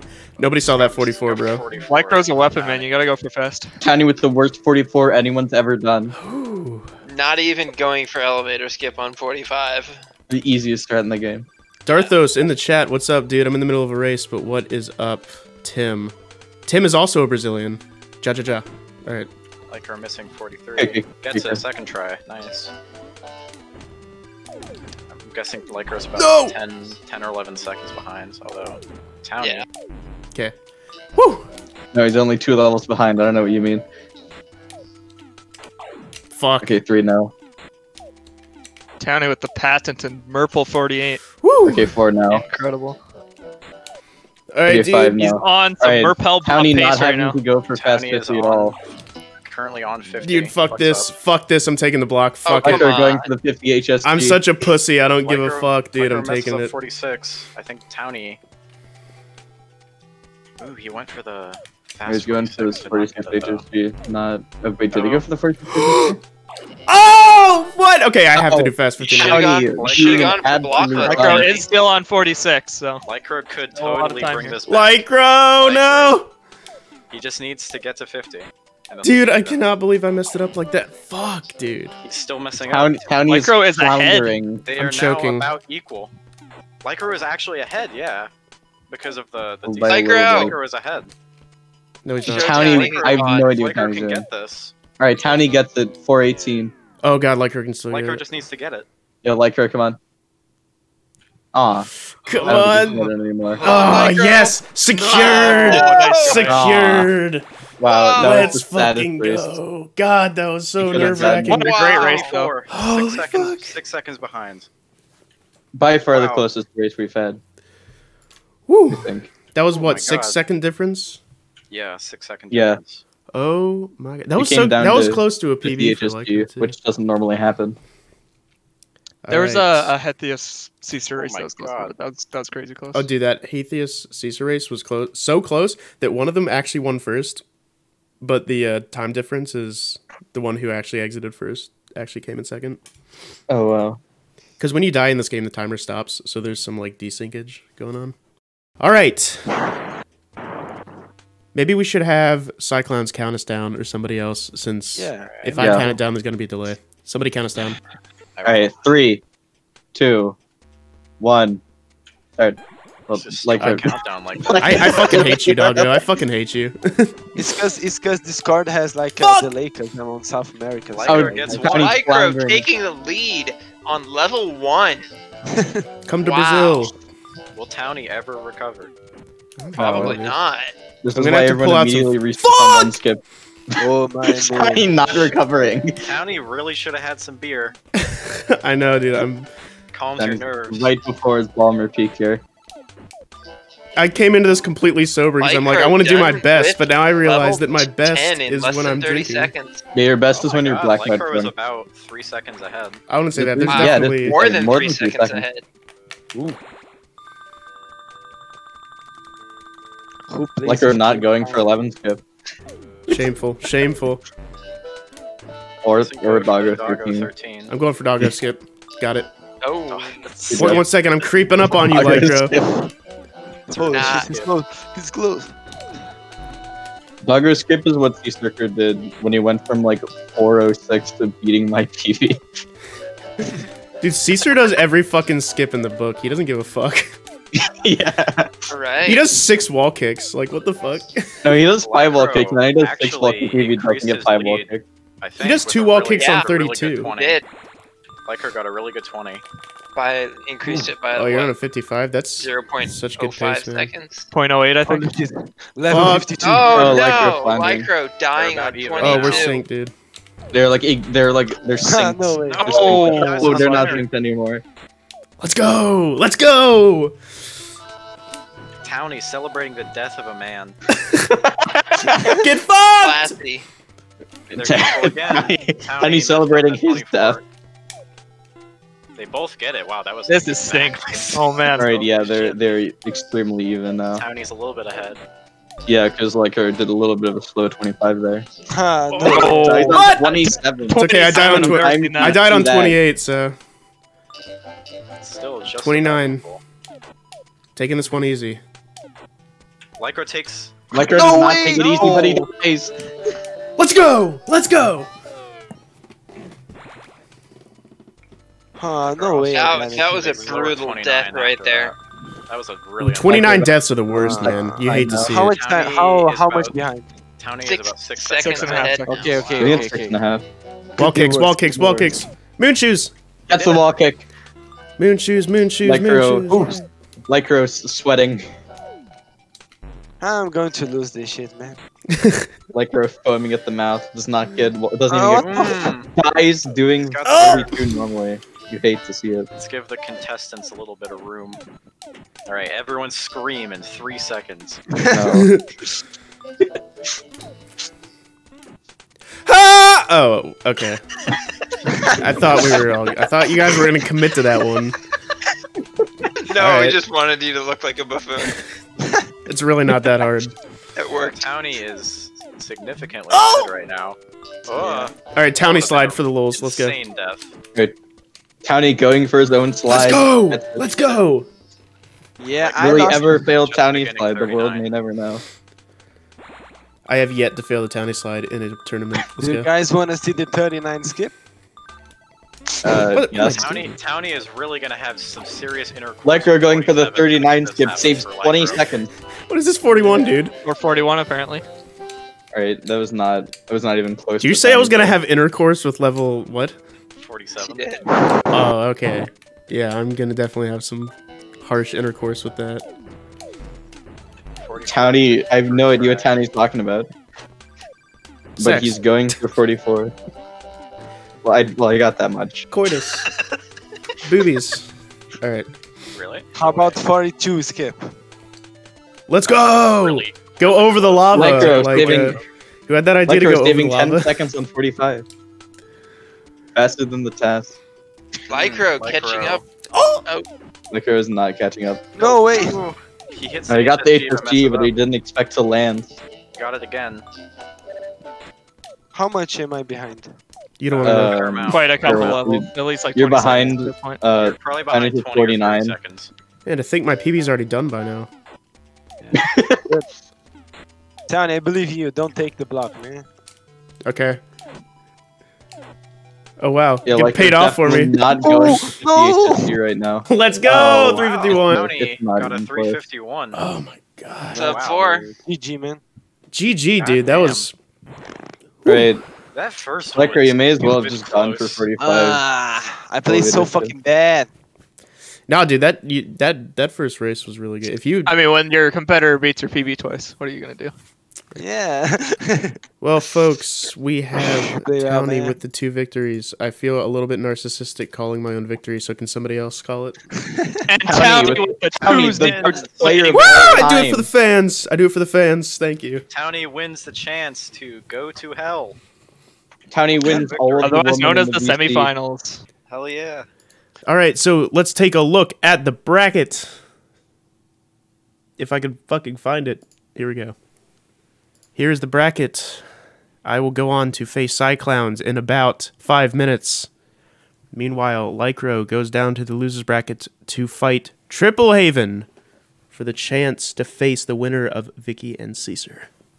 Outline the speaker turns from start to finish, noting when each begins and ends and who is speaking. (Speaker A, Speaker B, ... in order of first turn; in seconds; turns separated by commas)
Speaker A: 0.4-1.6, Speaker B: 0.6-2.9, Speaker C: 1.9-3.8, Speaker D: 3.8-6.2, Speaker A: 6.1-6.9, Speaker E: 7.1-10.1, Speaker D: 10.3-11.5, Speaker A: 11.8-16.1, Speaker A: 16.7-19.3, Speaker B: 19.7-22.7, Speaker D: 20.8-21.6, Speaker B: 25.1-29.7, Speaker A: 26.1-26.6, Speaker A: 31.2-31.5, Speaker D: 31.9-33.8, Speaker A: 36.3-36.8, Speaker D: 36.6-37.3, Speaker C: 39.0-41.2, Speaker A: 41.4-41.9, Speaker D: 41.6-42.5, Speaker C: 42.3-43.0, Speaker A: 44.5-45.2, Speaker D: 44.7-48.8, Speaker C: 45.2-47.4, Speaker B: 47.7-48.8, Speaker B: 49.4-51.1, Speaker A: 50.2-52.9, Speaker E: 52.5-53.3, Speaker D: 52.6-54.4, Speaker A: 54.0-56.8, Speaker B: 55.2-58.4, Speaker B: 60.6-63.6, Speaker D: 62.0-66.2, Speaker B: 64.9-65.2, Speaker A: 65.7-66.2, Speaker A: 66.9-69.5, Speaker D: 68.4-71.6, Speaker E: 69.2-71.6, Speaker B: 69.3-70.9, Speaker C: 71.0-73.0, Speaker B: 73.0-76.2, Speaker C: 73.8-74.6, Speaker A: 74.7-76.3, Speaker B: 77.1-79.6, Speaker A: 79.0-82.0, Speaker B: 82.0-83.3, Speaker D: 82.6-84.7, Speaker C: 83.3-84.4, Speaker B: 84.7-86.1, Speaker A: 84.7-85.5, Speaker B: 86.8-88.3, Speaker B: 88.9-91.1, Speaker D: 89.6-90.6, Speaker E: 89.9-90.5, Speaker A: 92.0-92.6, Speaker E: 92.2-93.5, Speaker D: 92.3-94.3, Speaker B: 92.5-94.8, Speaker D: 95.0-96.7, Speaker A: 97.0-98.2, Speaker B: 97.9-98.8, Speaker D: 99.2-100.0, Speaker D: 101.5-101.9, Speaker A: 102.2-107.5, Speaker D: 102.5-103.7, Speaker B: 102.5-103.0, Speaker E: 103.6-104.6, Speaker E: 105.1-106.5, Speaker B: 105.3-106.2, Speaker C: 105.6-106.5, Speaker D: 106.3-107.1, Speaker D: 107.8-109.5, Speaker E: 107.8-108.6, Speaker A: 108.2-111.7, Speaker D: 110.8-111.6, Speaker C: 111.2-112.5, Speaker B: 111.6-114.7, Speaker E: 111.7-112.5, Speaker A: 112.7-113.8, Speaker D: 115.8-117.4, Speaker B: 116.1-116.5, Speaker A: 118.7-121.2, Speaker D: 118.9-119.3, Speaker B: 119.7-120.4, Speaker B: 121.7-123.0, Speaker D: 122.5-122.8, Speaker A: 123.3-126.8, Speaker D: 124.4-127.8, Speaker A: 129.2-129.9, Speaker C: 129.3-133.1, Speaker B: 131.1-131.9, Speaker A: 132.9-137.4, Speaker A: 138.2-142.8, Speaker D: 143.5-144.0, Speaker A: 144.6-148.2, Speaker A: 148.8-149.6, Speaker A: 151.5-157.8, Speaker F: 155.0-155.9, Speaker D: 155.6-155.9, Speaker B: 158.4-158.9, Speaker D: 158.4-159.2, Speaker D: 159.9-160.4, Speaker D: 161.2-161.6, Speaker D: 162.4-166.0, Speaker B: 163.1-165.4, Speaker A: 164.5-167.4, Speaker F: 167.4-171.6, Speaker A: 169.2-169.5, Speaker B: 170.9-172.0, Speaker D: 171.1-172.7, Speaker E: 171.6-175.1, Speaker F: 175.5-175.8, Speaker A: 176.1-176.9, Speaker E: 176.2-176.9, Speaker B: 177.6-178.9, Speaker A: 179.6-180.4, Speaker E: 179.8-180.8, Speaker D: 179.8-180.2, Speaker D: 181.0-183.2, Speaker A: 181.1-182.9, Speaker F: 183.8-185.3, Speaker D: 184.4-186.1, Speaker B: 186.1-187.8, Speaker A: 188.0-189.5, Speaker B: 189.9-191.0, Speaker D: 190.2-192.4, Speaker A: 194.0-199.5, Speaker E: 195.4-199.8, Speaker D: 199.9-201.5, Speaker B: 200.3-203.0, Speaker A: 203.1-204.4, Speaker D: 203.4-205.5, Speaker E: 203.7-205.7, Speaker F: 210.3-211.7, Speaker D: 210.7-212.2, Speaker A: 213.1-214.2, Speaker D: 215.8-217.3, Speaker B: 215.9-217.7, Speaker A: 217.7-219.3, Speaker E: 219.6-220.2, Speaker B: 219.9-220.8, Speaker D: 220.4-220.8, Speaker A: 220.6-222.6, Speaker D: 221.9-222.9, Speaker F: 223.7-225.5, Speaker B: 223.7-224.5, Speaker E: 223.9-224.3, Speaker D: 227.2-232.4, Speaker A: 234.0-237.2, Speaker D: 237.6-238.7, Speaker E: 238.7-239.3, Speaker A: 239.1-241.6, Speaker D: 241.4-244.8, Speaker B: 241.7-247.4, Speaker A: 245.4-247.1, Speaker E: 246.2-246.5, Speaker E: 247.1-247.4, Speaker B: 248.3-249.4, Speaker E: 249.9-251.5, Speaker A: 250.7-253.9, Speaker E: 252.4-254.3, Speaker C: 254.3-255.3, Speaker F: 254.8-257.0, Speaker A: 255.9-256.8, Speaker E: 256.4-259.6, Speaker D: 256.7-257.9, Speaker B: 258.4-259.6, Speaker A: 259.0-259.9, Speaker D: 260.5-264.6, Speaker F: 261.8-264.1, Speaker E: 262.5-264.0, Speaker C: 262.6-263.7, Speaker A: 265.4-267.2, Speaker B: 268.8-270.8, Speaker A: 271.0-271.3, Speaker A: 272.2-273.4, Speaker E: 273.0-273.7, Speaker D: 274.5-277.4, Speaker B: 274.5-277.4, Speaker B: 279.2-282.6, Speaker C: 280.3-281.9, Speaker D: 281.1-284.3, Speaker B: 284.1-285.2, Speaker D: 285.9-288.5, Speaker F: 288.7-290.0, Speaker C: 289.2-292.4, Speaker D: 289.2-293.0, Speaker B: 290.2-290.6, Speaker A: 290.9-293.6, Speaker B: 295.2-296.6, Speaker A: 295.8-296.4, Speaker A: 297.8-298.6, Speaker B: 300.0-302.1, Speaker D: 300.9-302.9, Speaker A: 301.1-302.3, Speaker A: 303.8-305.1, Speaker F: 308.8-310.8, Speaker B: 309.1-312.0, Speaker E: 309.5-311.9, Speaker B: 312.5-313.8, Speaker A: 313.0-315.5, Speaker F: 314.1-317.1, Speaker D: 314.9-315.4, Speaker B: 315.5-316.8, Speaker B: 317.4-320.0, Speaker E: 317.6-319.6, Speaker C: 318.3-319.4, Speaker F: 319.0-320.2, Speaker D: 319.5-320.4, Speaker F: 321.0-322.2, Speaker A: 321.0-323.1, Speaker D: 323.5-324.2, Speaker B: 323.5-323.9, Speaker A: 325.0-326.8, Speaker D: 325.8-326.8, Speaker F: 326.5-326.8, Speaker D: 327.3-328.5, Speaker F: 330.2-331.8, Speaker A: 332.1-332.5, Speaker D: 332.7-339.5, Speaker F: 335.1-336.0, Speaker B: 335.3-336.1, Speaker B: 336.9-337.8, Speaker A: 337.2-337.7, Speaker B: 339.6-341.6, Speaker B: 342.5-344.8, Speaker F: 344.9-345.2, Speaker D: 345.1-345.5, Speaker A: 345.3-345.7, Speaker A: 349.5-351.1, Speaker A: 352.1-355.0, Speaker E: 356.4-358.6, Speaker A: 356.6-357.0, Speaker A: 359.5-360.6, Speaker E: 361.0-361.5, Speaker B: 361.1-367.6, Speaker A: 363.3-363.7, Speaker F: 364.7-365.1, Speaker A: 365.3-367.0, Speaker D: 368.6-370.9, Speaker A: 369.9-371.5, Speaker F: 372.4-373.4, Speaker B: 372.6-374.9, Speaker D: 372.8-375.4, Speaker A: 377.1-379.7, Speaker F: 379.4-381.4, Speaker D: 382.8-383.8, Speaker A: 383.1-384.0, Speaker B: 383.4-388.9, Speaker D: 386.2-389.1, Speaker A: 389.5-390.5, Speaker C: 390.6-391.6, Speaker D: 392.5-395.1, Speaker A: 394.4-396.8, Speaker B: 397.2-398.0, Speaker E: 397.6-398.1, Speaker A: 398.5-402.9, Speaker B: 404.6-406.4, Speaker D: 404.9-407.1, Speaker D: 408.6-410.1, Speaker A: 408.6-409.4, Speaker D: 411.4-412.7, Speaker A: 412.7-413.3, Speaker A: 414.2-415.7, Speaker B: 416.1-417.0, Speaker F: 416.5-418.1, Speaker A: 419.3-424.3, Speaker B: 419.5-422.5, Speaker D: 421.3-422.4, Speaker D: 423.3-425.2, Speaker D: 426.8-427.8, Speaker E: 428.5-429.7, Speaker B: 428.5-429.6, Speaker A: 429.9-430.2, Speaker E: 430.2-430.5, Speaker D: 430.9-432.2, Speaker F: 432.2-432.8, Speaker B: 432.2-435.0, Speaker D: 433.7-436.1, Speaker B: 436.6-437.2, Speaker F: 439.1-440.4, Speaker A: 440.8-441.5, Speaker B: 441.0-442.4, Speaker D: 441.0-446.0, Speaker C: 441.7-444.2, Speaker B: 444.3-446.3, Speaker A: 446.7-448.3, Speaker D: 449.3-449.8, Speaker F: 451.3-453.3, Speaker A: 454.1-454.4, Speaker A: 456.6-459.0, Speaker D: 457.1-463.0, Speaker F: 458.4-459.7, Speaker A: 460.3-461.9, Speaker B: 460.7-463.6, Speaker A: 463.5-464.8, Speaker E: 464.5-465.3, Speaker B: 464.6-465.3, Speaker F: 465.4-466.0, Speaker A: 466.5-467.7, Speaker B: 467.0-467.7, Speaker D: 468.9-469.2, Speaker B: 469.5-471.9, Speaker D: 470.1-472.4, Speaker F: 472.0-474.5, Speaker D: 473.3-473.9, Speaker A: 475.5-478.4, Speaker C: 478.2-480.9, Speaker F: 481.6-482.8, Speaker A: 483.0-490.2, Speaker F: 484.4-485.6, Speaker F: 490.4-490.8, Speaker C: 490.9-493.9, Speaker D: 491.1-494.3, Speaker B: 492.1-493.6, Speaker A: 493.3-496.2, Speaker B: 496.3-499.0, Speaker D: 499.9-502.1, Speaker B: 500.2-501.1, Speaker C: 500.8-502.6, Speaker B: 502.9-503.5, Speaker A: 504.1-506.8, Speaker A: 508.6-510.6, Speaker A: 511.8-512.9, Speaker A: 513.5-516.9, Speaker A: 517.7-522.3, Speaker A: 522.9-526.1